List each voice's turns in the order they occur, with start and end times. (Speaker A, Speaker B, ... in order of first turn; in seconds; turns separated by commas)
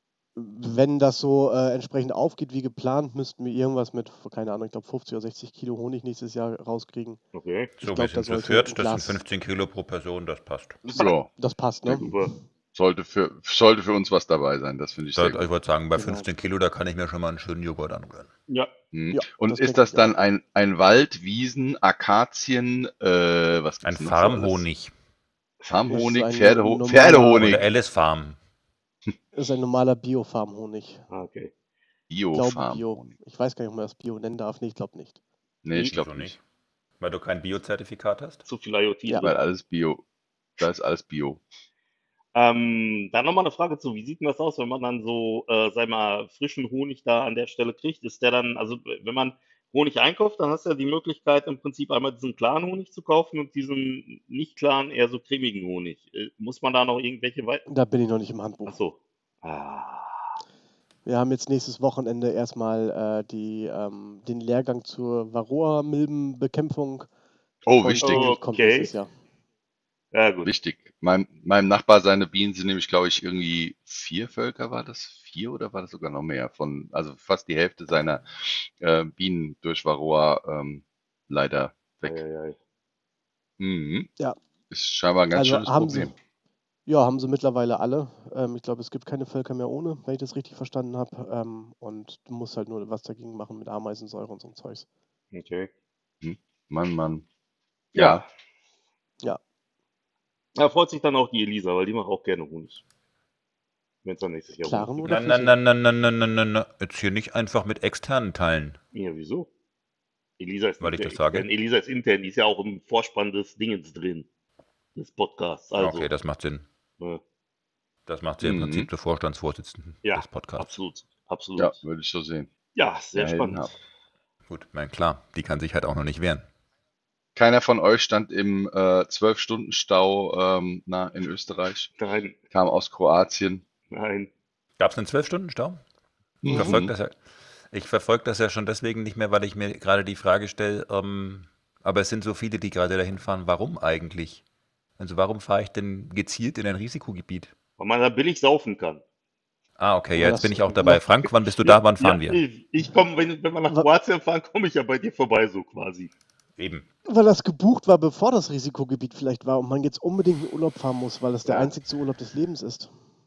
Speaker A: 0.3-7.2, Speaker B: 7.3-7.7, Speaker C: 7.8-10.8, Speaker A: 7.8-9.2, Speaker A: 10.8-12.1, Speaker D: 10.9-11.3, Speaker B: 11.9-12.3, Speaker D: 12.7-15.4, Speaker C: 15.1-18.3, Speaker A: 15.9-16.3, Speaker D: 18.9-24.6, Speaker A: 19.1-20.1, Speaker C: 23.8-24.9, Speaker D: 25.6-27.7, Speaker A: 25.9-27.6, Speaker C: 27.4-28.4, Speaker A: 29.3-31.0, Speaker B: 31.1-31.5, Speaker D: 32.1-33.1, Speaker A: 32.3-35.2, Speaker D: 35.6-36.3, Speaker C: 35.9-36.4, Speaker C: 37.0-38.4, Speaker B: 38.5-39.4, Speaker D: 39.2-40.0, Speaker D: 40.6-41.4, Speaker B: 42.3-57.6, Speaker A: 57.7-58.8, Speaker B: 58.6-60.4, Speaker A: 61.0-67.1, Speaker D: 67.6-68.3, Speaker A: 67.8-69.1, Speaker B: 68.0-68.9, Speaker B: 70.1-70.5, Speaker D: 70.4-82.2, Speaker B: 82.0-82.6, Speaker D: 83.6-84.1, Speaker D: 84.7-86.1, Speaker A: 85.3-86.1, Speaker A: 86.8-94.8, Speaker B: 95.3-95.7, Speaker D: 96.2-97.2, Speaker D: 97.9-98.2, Speaker B: 97.9-98.2, Speaker B: 100.5-102.8, Speaker B: 104.0-105.1, Speaker A: 104.6-105.5, Speaker C: 105.0-108.8, Speaker B: 108.9-109.5, Speaker B: 110.4-114.3, Speaker C: 110.8-111.5, Speaker B: 114.9-116.1, Speaker C: 115.8-116.6, Speaker C: 118.1-120.7, Speaker D: 118.4-118.9, Speaker B: 120.0-121.8, Speaker D: 121.6-122.5, Speaker B: 122.7-123.7, Speaker D: 123.1-123.7, Speaker C: 124.5-126.4, Speaker D: 127.3-131.9, Speaker B: 132.0-132.3, Speaker D: 132.5-133.6, Speaker B: 133.9-134.3, Speaker C: 134.8-135.8, Speaker D: 136.4-136.9, Speaker C: 136.4-137.2, Speaker C: 137.7-144.4, Speaker C: 145.0-147.5, Speaker B: 147.8-149.0, Speaker C: 149.8-152.4, Speaker A: 150.2-151.0, Speaker B: 151.6-156.1, Speaker C: 156.6-156.8, Speaker A: 157.1-162.9, Speaker B: 161.4-161.7